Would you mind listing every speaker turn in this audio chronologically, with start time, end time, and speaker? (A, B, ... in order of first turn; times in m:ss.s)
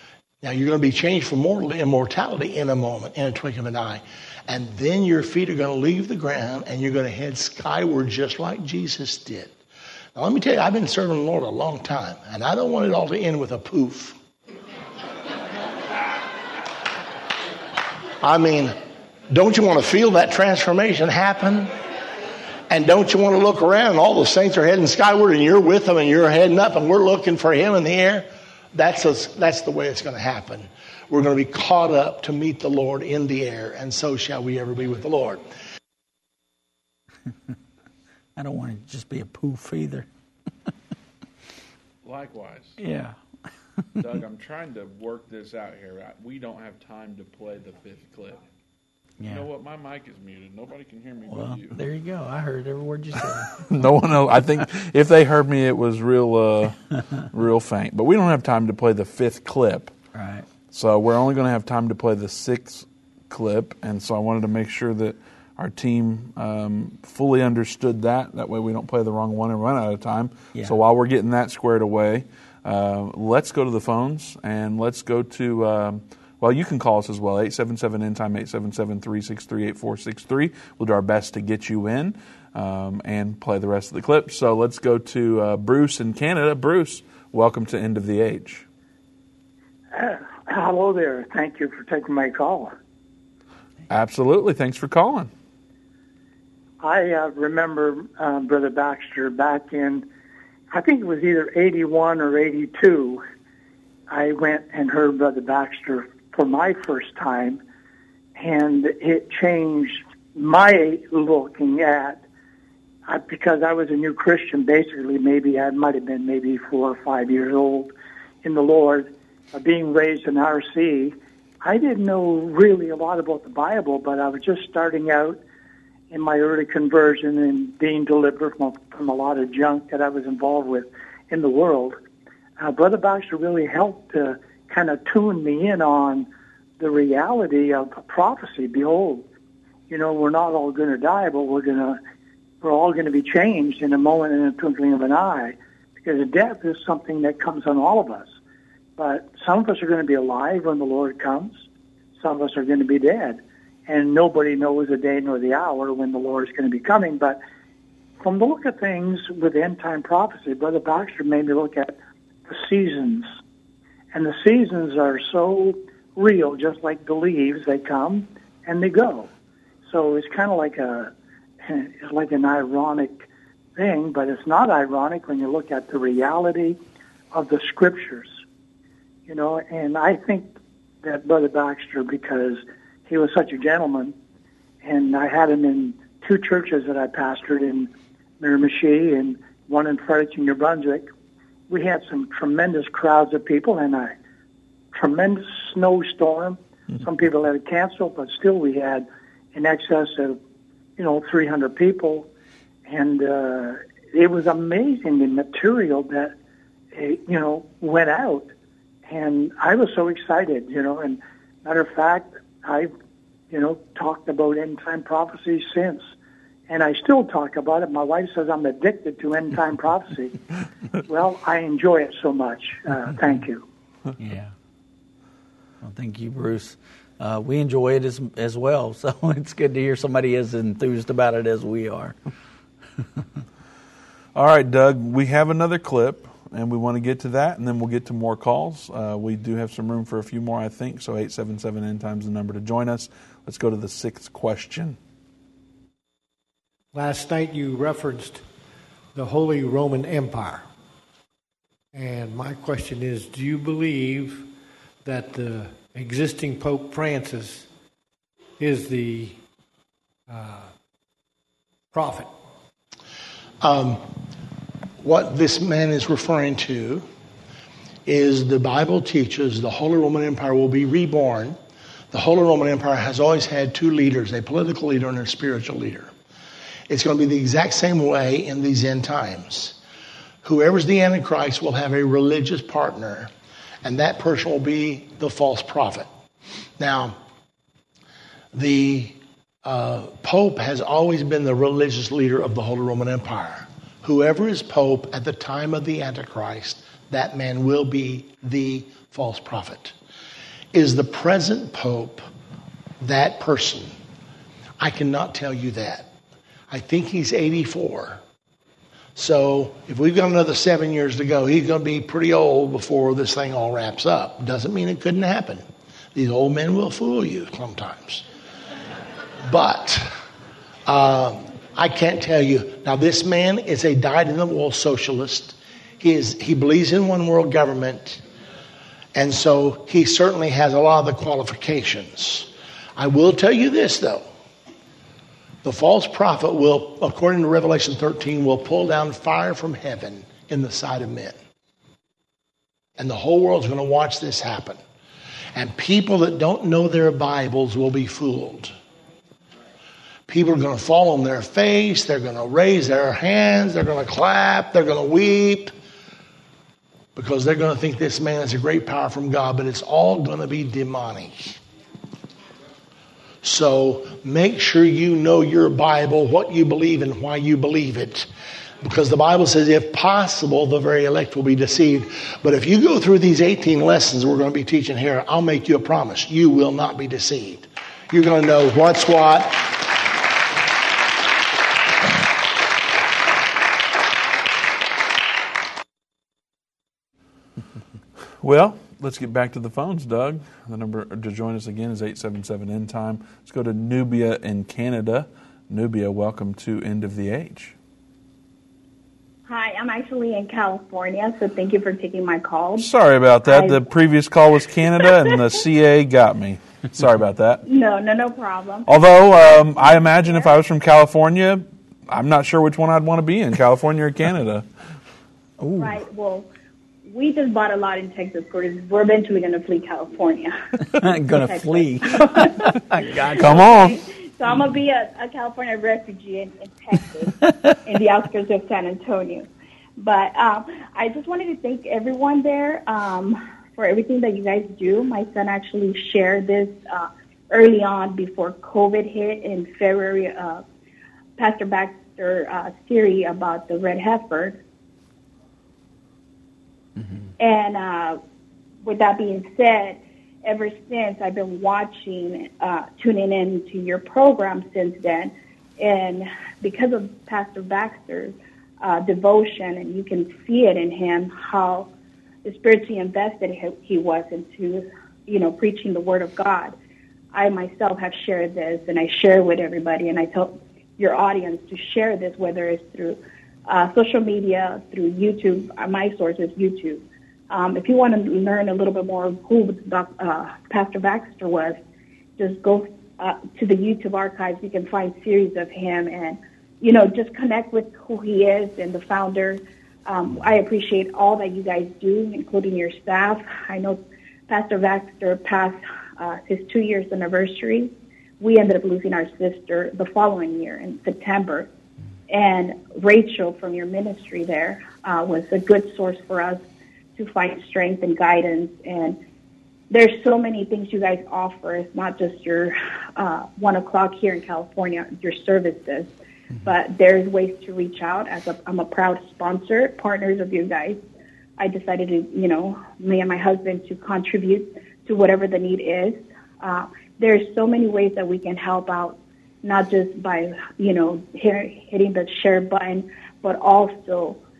0:00.4-0:09.5 A
0:10.1-0:14.2 A
0:18.2-0:18.7 A
0:19.3-0:21.7 A
0:22.7-0:35.4 A
0:38.4-0:40.1 B
0:42.0-0:42.8 C
0:42.8-0:43.2 B
0:44.0-0:48.4 C
0:49.2-0:49.5 B
0:49.2-0:51.8 C
0:51.3-0:53.5 B
0:53.5-0:56.8 C
0:57.3-0:59.9 C
1:00.1-1:00.5 B
1:00.7-1:28.6 C
1:29.9-1:32.7 D
1:33.9-1:35.3 C
1:36.8-1:40.0 D
1:40.7-1:43.2 D
1:44.1-1:47.6 D
1:48.4-1:52.2 D
1:53.0-1:57.9 D
1:58.4-2:05.4 D
2:06.1-2:12.0 D
2:12.6-2:16.3 D
2:16.8-2:19.2 D
2:19.9-2:22.0 D
2:22.6-2:28.4 D
2:29.0-2:31.6 D
2:32.2-2:37.4 D
2:38.2-2:43.3 D
2:44.1-2:49.3 D
2:49.8-2:51.1 D
2:51.6-2:56.8 D
2:57.3-2:58.4 D
2:59.3-3:00.5 D
3:01.0-3:04.1 D
3:04.8-3:11.1 D
3:11.7-3:14.1 D
3:14.9-3:20.4 D
3:21.0-3:22.3 D
3:22.8-3:26.3 D
3:26.9-3:28.5 D
3:29.0-3:32.9 D
3:33.5-3:36.1 D
3:36.7-3:40.4 D
3:41.0-3:43.6 D
3:44.2-3:44.5 B
3:45.8-3:52.1 B
3:54.3-4:05.0 C
4:06.9-4:08.4 E
4:09.1-4:10.6 E
4:11.9-4:17.7 E
4:18.6-4:19.4 E
4:20.3-4:20.7 E
4:21.9-4:22.3 E
4:23.6-4:24.1 A
4:25.0-4:27.0 A
4:28.0-4:31.6 A
4:32.1-4:36.1 A
4:36.9-4:39.8 A
4:40.4-4:43.3 A
4:43.8-4:46.1 A
4:46.8-4:47.2 A
4:48.5-4:59.9 A
5:00.7-5:02.2 A
5:03.0-5:03.9 A
5:04.8-5:06.1 A
5:06.7-5:08.2 A
5:09.2-5:18.2 A
5:19.4-5:20.1 A
5:20.8-5:28.2 A
5:29.1-5:34.2 A
5:35.6-5:41.4 A
5:43.0-5:44.8 A
5:45.5-5:48.7 A
5:50.3-5:55.7 A
5:57.2-6:01.6 A
6:03.4-6:08.3 A
6:08.8-6:19.8 A
6:28.4-6:37.8 C
6:39.4-6:42.9 F
6:42.8-6:47.6 C
6:43.4-6:43.8 F
6:47.6-6:48.9 F
6:48.9-6:54.6 C
6:55.6-6:55.9 B
6:55.8-6:56.5 F
6:57.0-7:00.6 F
7:00.9-7:03.7 B
7:01.3-7:02.7 F
7:03.3-7:09.5 F
7:03.3-7:04.0 C
7:10.0-7:20.6 F
7:21.4-7:24.6 F
7:27.4-7:28.2 F
7:28.8-7:41.9 F
7:42.4-7:46.7 F
7:47.3-8:01.8 F
8:02.4-8:21.7 F
8:22.3-8:26.6 F
8:27.2-8:29.2 F
8:29.9-8:36.1 F
8:36.6-8:41.0 F
8:41.6-8:54.4 F